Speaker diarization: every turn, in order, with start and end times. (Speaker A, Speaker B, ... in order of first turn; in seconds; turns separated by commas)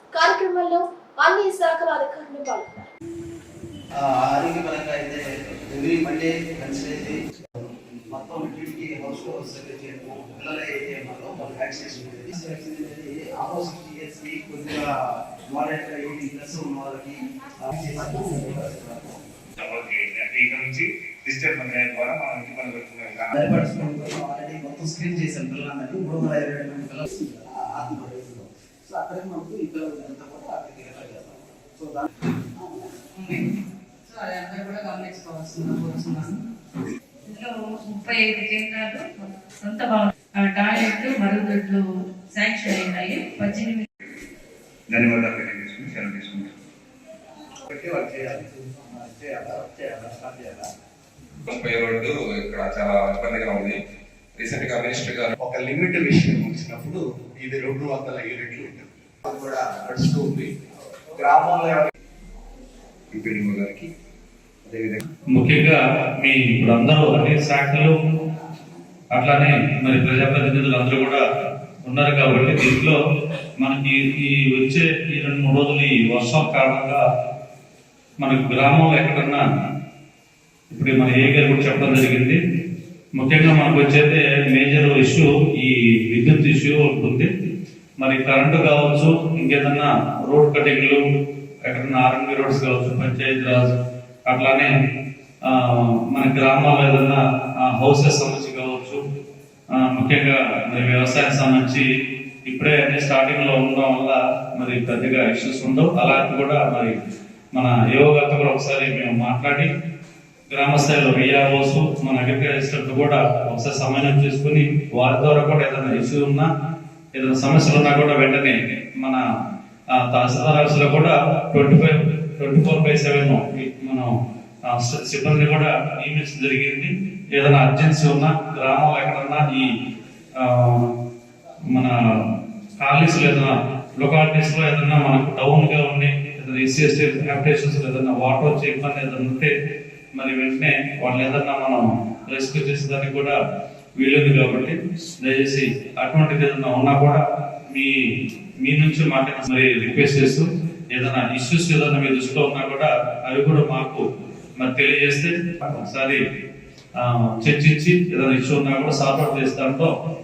Speaker A: 0.1-2.9, Speaker B: 4.0-14.9, Speaker B: 15.5-19.2, Speaker C: 19.6-23.3, Speaker B: 23.4-32.9, Speaker D: 33.2-33.4, Speaker D: 34.1-36.4, Speaker D: 37.3-41.8, Speaker D: 42.3-43.9, Speaker E: 44.9-46.4, Speaker C: 45.0-46.2, Speaker B: 47.7-50.6, Speaker E: 51.5-53.7, Speaker E: 54.4-55.4, Speaker F: 55.4-58.8, Speaker B: 59.3-59.6, Speaker B: 61.2-61.8, Speaker E: 63.1-63.9, Speaker E: 64.6-65.0, Speaker G: 65.3-67.9, Speaker G: 69.1-71.2, Speaker G: 71.8-73.0, Speaker G: 73.6-77.0, Speaker G: 78.2-79.4, Speaker G: 80.7-82.4, Speaker G: 83.2-87.3, Speaker G: 88.0-91.0, Speaker G: 91.7-93.7, Speaker G: 94.3-94.7, Speaker G: 95.5-99.0, Speaker G: 99.8-101.8, Speaker G: 102.5-106.9, Speaker G: 107.5-109.7, Speaker G: 110.5-116.5, Speaker G: 117.1-119.2, Speaker G: 120.0-124.1, Speaker G: 124.7-129.7, Speaker G: 130.4-130.8, Speaker G: 132.8-139.5, Speaker G: 140.1-143.3, Speaker G: 144.0-147.9, Speaker G: 148.6-154.0, Speaker G: 154.6-156.2, Speaker G: 157.0-159.9